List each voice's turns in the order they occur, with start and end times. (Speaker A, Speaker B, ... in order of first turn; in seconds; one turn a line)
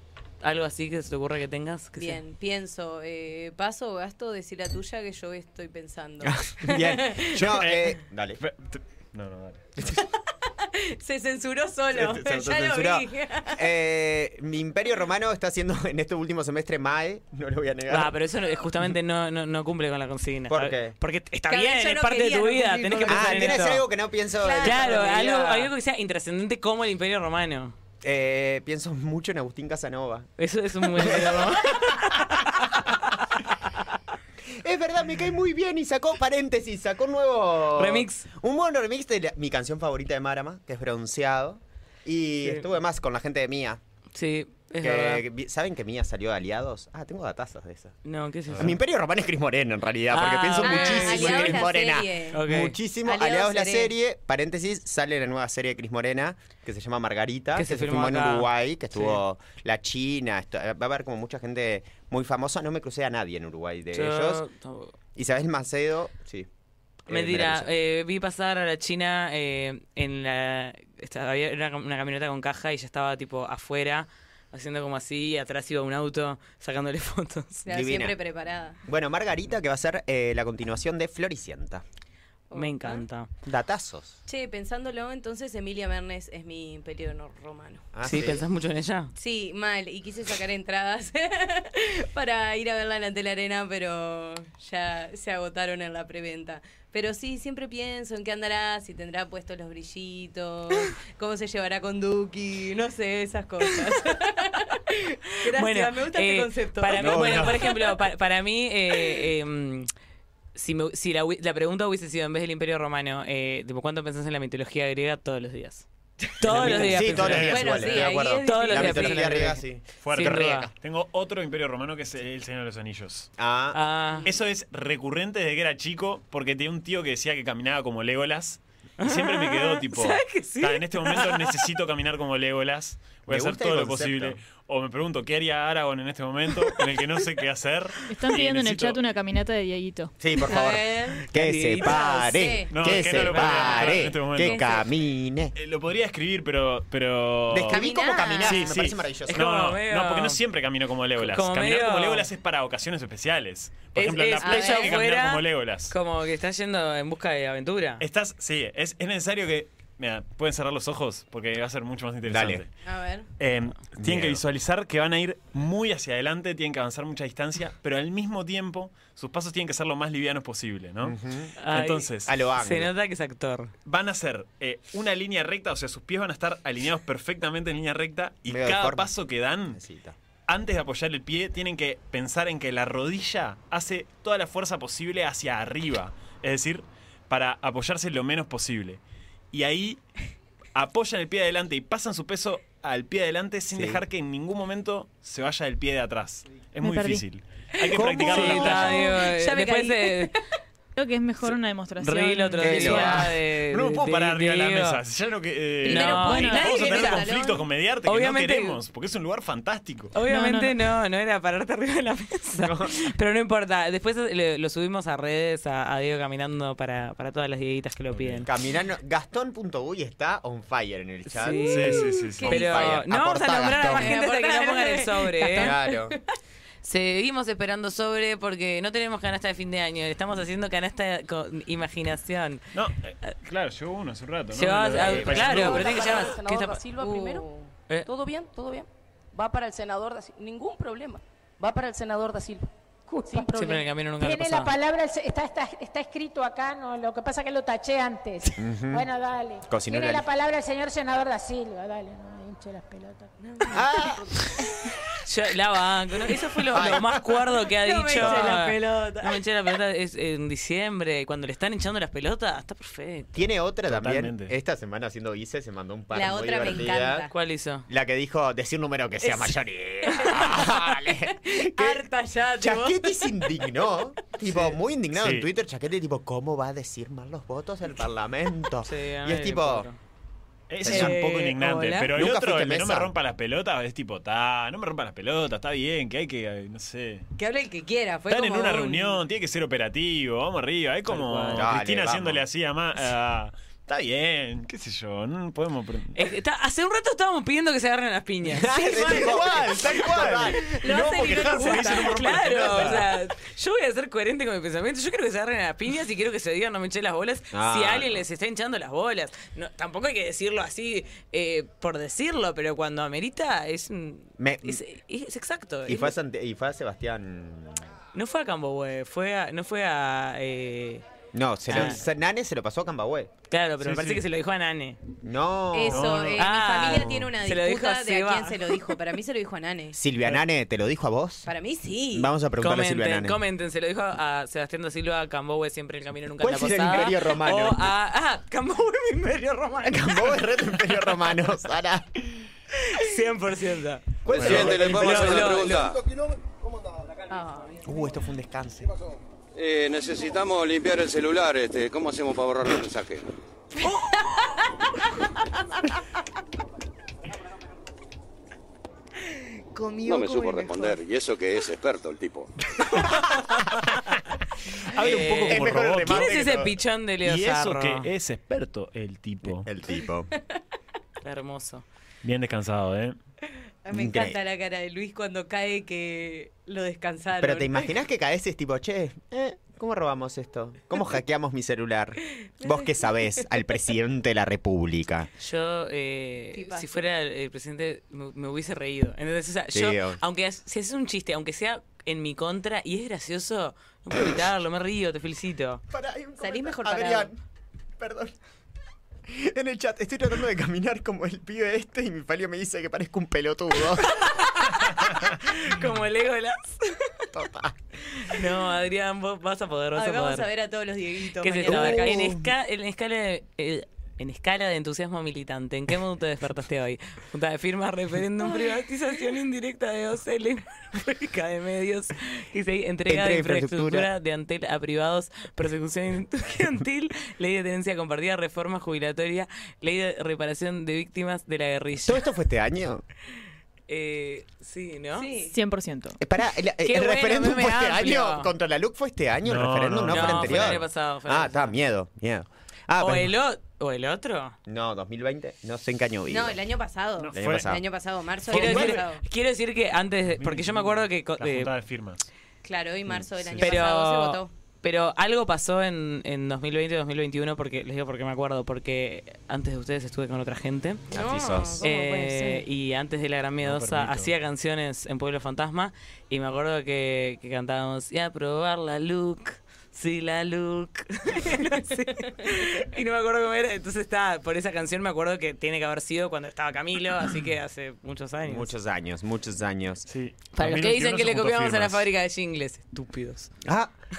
Speaker A: 0.4-2.2
Speaker B: 2.0-7.4
Speaker C: 6.2-8.4
Speaker D: 7.3-9.6
Speaker C: 9.8-10.0
Speaker B: 10.4-13.6
Speaker C: 11.9-18.1
Speaker A: 17.9-23.8
Speaker C: 20.5-20.9
Speaker B: 21.5-23.7
Speaker C: 23.1-25.7
Speaker B: 24.4-25.3
Speaker A: 24.6-27.7
Speaker C: 28.0-30.3
Speaker A: 30.4-33.0
Speaker C: 30.9-32.2
Speaker C: 34.6-43.8
Speaker A: 37.8-38.3
Speaker A: 44.1-45.2
Speaker C: 44.8-47.9
Speaker A: 48.0-48.8
Speaker D: 48.5-48.8
Speaker C: 48.6-64.4
Speaker A: 50.1-51.6
Speaker B: 50.6-52.4
Speaker A: 52.3-52.8
Speaker B: 53.0-53.9
Speaker A: 57.5-59.2
Speaker A: 63.9-64.9
Speaker C: 65.2-66.5
Speaker C: 67.0-67.7
Speaker A: 67.1-77.7
Speaker B: 77.6-78.8
Speaker C: 77.7-78.2
Speaker C: 78.8-81.8
Speaker B: 82.5-83.0
Speaker A: 82.5-83.3
Speaker C: 83.4-84.2
Speaker B: 84.3-87.9
Speaker C: 87.9-88.4
Speaker A: 88.0-89.1
Speaker B: 89.2-107.8
Speaker A: 105.5-109.9
Speaker C: 106.9-107.5
Speaker A: 110.5-115.9
Speaker A: 116.4-119.6
Speaker B: 116.4-119.4
Speaker C: 116.5-120.7
Speaker D: 116.5-118.0
Speaker D: 120.0-123.3
Speaker A: 120.1-120.7
Speaker C: 123.4-123.8
Speaker A: 123.7-124.3
Speaker D: 124.2-139.0
Speaker A: 129.0-131.6
Speaker C: 133.3-134.4
Speaker E: 138.1-140.1
Speaker C: 140.2-145.5
Speaker B: 140.4-141.2
Speaker A: 141.3-142.1
Speaker B: 141.8-143.9
Speaker D: 142.7-144.7
Speaker A: 143.4-143.8
Speaker D: 145.6-147.8
Speaker C: 147.5-149.4
Speaker B: 147.7-148.7
Speaker D: 148.4-155.9
Speaker A: 149.3-150.4
Speaker A: 151.2-152.3
Speaker A: 153.9-158.0
Speaker B: 154.4-155.0
Speaker D: 158.0-162.7
Speaker C: 162.2-162.6
Speaker B: 162.8-163.3
Speaker D: 163.4-171.1
Speaker C: 164.0-164.4
Speaker C: 171.0-171.6
Speaker A: 171.6-173.7
Speaker D: 171.7-172.4
Speaker C: 172.2-172.9
Speaker D: 173.8-179.8
Speaker C: 178.5-179.1
Speaker C: 179.7-180.2
Speaker D: 180.5-189.0
Speaker D: 189.5-190.0
Speaker D: 190.7-199.0
Speaker C: 193.7-194.0
Speaker E: 196.8-197.2
Speaker C: 197.9-199.1
Speaker B: 198.2-200.3
Speaker A: 198.2-200.3
Speaker E: 200.9-203.2
Speaker A: 201.4-205.0
Speaker C: 202.6-203.3
Speaker D: 203.7-210.1
Speaker B: 205.8-207.7
Speaker A: 205.9-207.2
Speaker E: 206.0-207.2
Speaker A: 208.1-208.8
Speaker A: 210.1-218.5
Speaker E: 210.2-210.8
Speaker C: 212.6-212.9
Speaker D: 218.1-218.5
Speaker C: 218.4-224.1
Speaker A: 221.2-225.8
Speaker B: 221.6-222.9
Speaker D: 221.7-222.9
Speaker B: 223.8-226.2
Speaker C: 225.6-226.1
Speaker A: 226.8-232.6
Speaker D: 232.7-236.0
Speaker A: 234.5-236.8
Speaker C: 235.1-235.5
Speaker F: 235.2-242.7
Speaker B: 236.9-237.7
Speaker G: 243.1-243.5
Speaker F: 243.3-243.8
Speaker A: 243.5-244.7
Speaker G: 244.2-253.3
Speaker C: 248.6-249.1
Speaker C: 249.7-250.2
Speaker B: 253.4-254.5
Speaker C: 253.7-254.3
Speaker A: 255.2-263.3
Speaker C: 256.7-257.1
Speaker B: 257.8-259.4
Speaker C: 263.3-267.2
Speaker D: 263.9-264.5
Speaker B: 266.1-267.3
Speaker A: 267.3-267.9
Speaker C: 267.9-272.1
Speaker B: 269.2-269.5
Speaker B: 270.0-273.7
Speaker C: 272.6-279.9
Speaker B: 274.4-274.7
Speaker D: 275.1-275.5
Speaker A: 278.8-280.0
Speaker D: 280.7-287.3
Speaker C: 280.8-281.1
Speaker A: 280.8-281.6
Speaker B: 280.8-282.1
Speaker C: 282.1-283.1
Speaker B: 287.4-289.2
Speaker D: 288.3-296.1
Speaker C: 291.5-292.4
Speaker A: 296.1-299.2
Speaker C: 298.5-300.7
Speaker B: 298.8-299.3
Speaker D: 299.1-303.1
Speaker A: 300.3-316.1
Speaker B: 300.8-302.9
Speaker C: 307.5-308.2
Speaker C: 314.4-314.8
Speaker C: 315.9-317.8
Speaker A: 318.1-321.0
Speaker C: 321.3-323.3
Speaker A: 321.7-322.0
Speaker A: 323.5-325.0
Speaker D: 323.8-324.2
Speaker C: 325.2-327.3
Speaker B: 325.7-330.0
Speaker D: 325.9-326.4
Speaker A: 326.4-329.0
Speaker C: 329.9-331.5
Speaker B: 331.4-332.3
Speaker C: 332.1-333.4
Speaker A: 332.6-340.8
Speaker C: 336.4-337.9
Speaker C: 339.8-342.1
Speaker A: 342.9-345.9
Speaker C: 344.2-345.4
Speaker H: 344.3-346.0
Speaker D: 344.3-345.5
Speaker B: 347.3-347.8
Speaker C: 347.8-348.9
Speaker H: 349.5-353.3
Speaker B: 353.9-354.5
Speaker B: 359.6-361.0
Speaker H: 360.0-362.5
Speaker D: 364.7-366.3
Speaker C: 365.0-366.8
Speaker A: 365.0-368.1
Speaker D: 367.2-369.7
Speaker C: 369.6-370.3
Speaker A: 371.2-371.8
Speaker D: 372.2-373.1
Speaker B: 373.8-377.9
Speaker C: 373.9-374.4
Speaker C: 377.4-385.3
Speaker B: 382.6-383.1
Speaker A: 385.4-395.8
Speaker B: 386.5-387.0
Speaker C: 389.7-390.2
Speaker C: 395.9-397.4
Speaker B: 396.4-397.3
Speaker C: 398.0-398.3
Speaker C: 399.3-404.1
Speaker A: 404.0-407.2
Speaker C: 407.3-407.7
Speaker A: 408.2-410.5
Speaker B: 409.9-412.2
Speaker A: 411.4-432.2
Speaker C: 411.6-412.5
Speaker C: 423.1-424.1
Speaker C: 432.0-433.0
Speaker A: 433.9-435.3
Speaker B: 435.1-435.5
Speaker E: 435.5-436.2
Speaker C: 436.2-443.3
Speaker A: 436.8-438.5
Speaker D: 439.4-440.9
Speaker A: 440.1-441.7
Speaker A: 443.0-444.5
Speaker C: 444.7-446.6
Speaker B: 446.3-449.2
Speaker D: 447.2-447.7
Speaker C: 447.3-447.8
Speaker C: 448.5-449.0
Speaker A: 448.5-451.7
Speaker D: 450.4-452.3
Speaker B: 452.6-454.5
Speaker C: 453.1-453.8
Speaker A: 453.6-461.0
Speaker C: 461.1-461.9
Speaker B: 461.1-461.9
Speaker A: 461.8-478.7
Speaker E: 461.9-462.6
Speaker D: 463.6-464.3
Speaker C: 478.4-480.1
Speaker D: 480.1-482.1
Speaker A: 480.6-483.5
Speaker C: 483.6-483.9